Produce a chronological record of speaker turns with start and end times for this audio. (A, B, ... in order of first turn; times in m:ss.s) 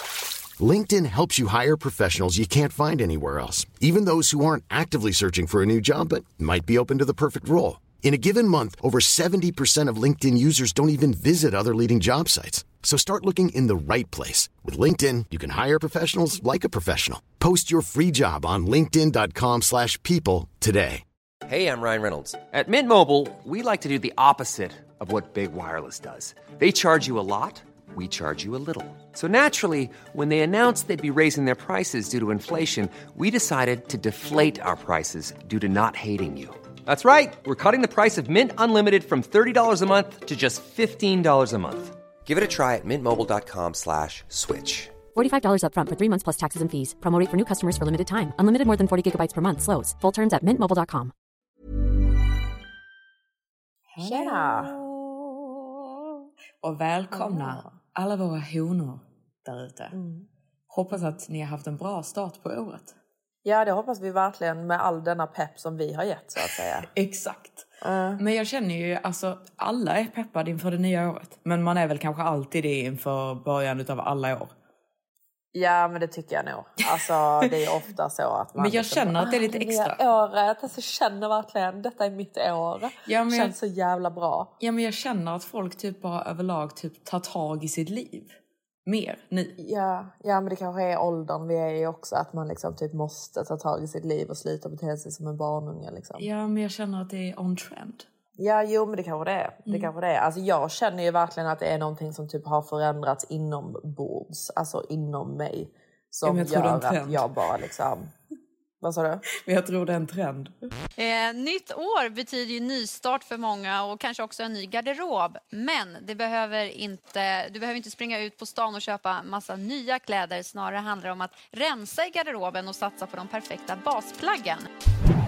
0:00.6-0:21.0 A
0:21.5-0:45.0 B
0:45.1-0:51.1 C
0:53.9-0:54.9 D
0:54.0-0:54.8 E
0:56.6-1:00.0 D
0:57.1-0:57.7 E
0:59.9-1:00.3 E
1:00.7-1:03.0 D
1:03.4-1:06.9 E
1:06.9-1:07.7 D
1:07.8-1:08.2 E
1:08.2-1:14.5 D
1:15.5-1:24.5 E
1:18.6-1:20.0 D
1:23.1-1:23.6 D
1:24.6-1:28.4 D
1:28.9-1:29.6 D
1:29.6-1:36.3 E
1:36.2-1:38.1 D
1:38.4-1:48.1 E
1:46.2-1:47.2 D
1:48.8-1:49.2 E
1:49.3-1:50.7 D
1:51.0-2:04.7 F